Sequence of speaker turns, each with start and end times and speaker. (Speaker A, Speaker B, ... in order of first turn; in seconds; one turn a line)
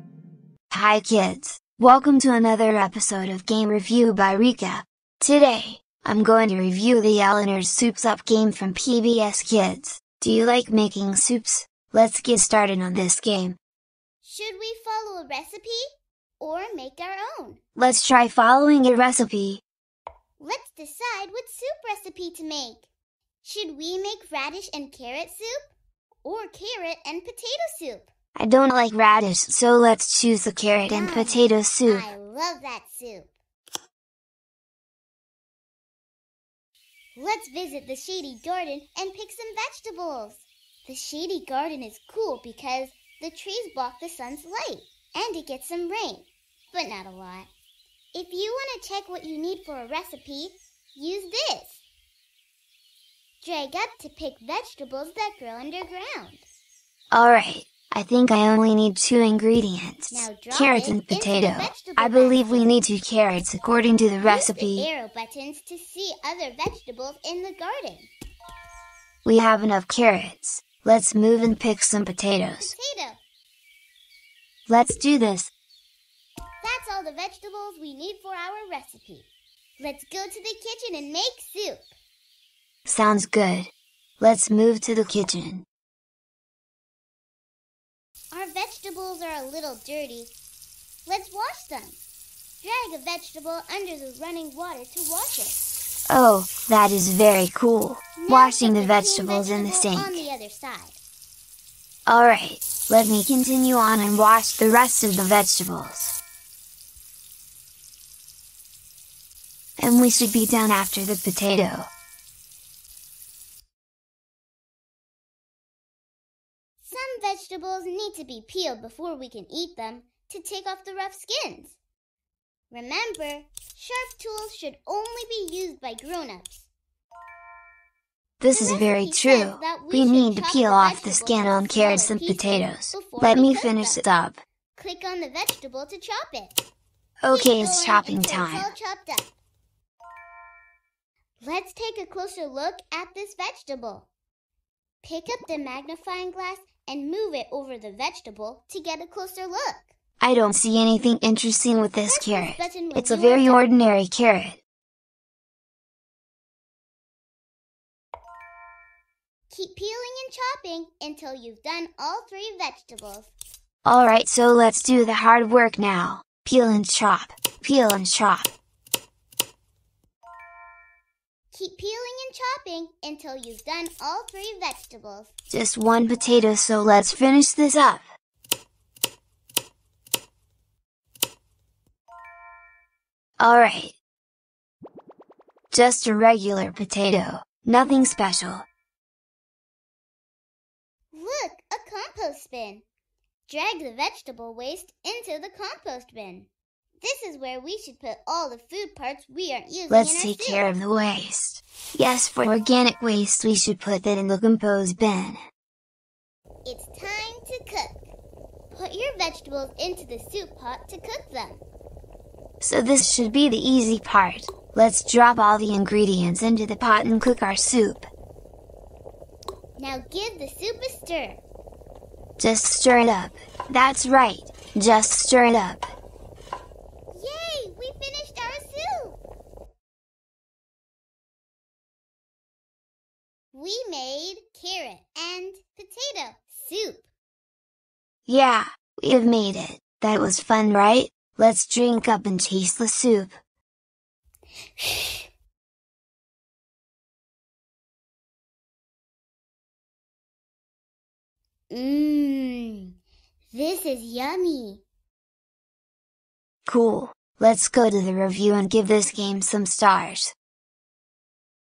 Speaker A: 0.7-13.6
Speaker B: 14.2-15.8
Speaker B: 16.4-17.6
Speaker A: 17.8-19.6
Speaker B: 20.4-22.9
Speaker B: 23.4-25.7
Speaker B: 26.2-28.1
Speaker A: 28.4-32.1
Speaker B: 30.9-33.3
Speaker B: 37.1-47.5
Speaker B: 48.1-51.8
Speaker B: 53.4-56.4
Speaker A: 57.1-64.9
Speaker B: 60.1-62.8
Speaker B: 64.2-68.1
Speaker A: 69.2-72.7
Speaker B: 72.6-73.2
Speaker A: 74.7-75.5
Speaker B: 76.6-81.9
Speaker A: 82.8-85.6
Speaker B: 88.3-90.3
Speaker B: 91.0-92.0
Speaker B: 92.6-95.6
Speaker A: 96.1-100.2
Speaker B: 98.2-101.0
Speaker A: 102.1-106.2
Speaker A: 109.8-111.9
Speaker B: 116.8-121.8
Speaker B: 122.7-126.7
Speaker A: 128.4-134.4
Speaker B: 128.5-134.0
Speaker B: 134.7-136.6
Speaker A: 137.2-138.7
Speaker B: 137.3-139.3
Speaker B: 141.4-144.1
Speaker B: 145.0-149.9
Speaker A: 150.2-154.6
Speaker B: 152.1-153.7
Speaker B: 159.5-163.3
Speaker A: 163.8-168.5
Speaker B: 171.5-175.3
Speaker A: 175.5-178.1
Speaker A: 183.4-183.9
Speaker A: 185.7-188.7
Speaker B: 191.1-192.8
Speaker B: 193.5-196.5
Speaker B: 197.0-200.7
Speaker A: 199.9-205.4
Speaker B: 206.6-208.0
Speaker B: 208.7-211.6
Speaker A: 212.6-218.1
Speaker B: 219.8-221.4
Speaker A: 222.4-225.9
Speaker B: 227.1-229.2
Speaker B: 233.5-237.1
Speaker A: 238.3-243.3
Speaker B: 244.8-245.2
Speaker B: 251.7-252.9
Speaker B: 253.5-254.8
Speaker A: 256.7-260.3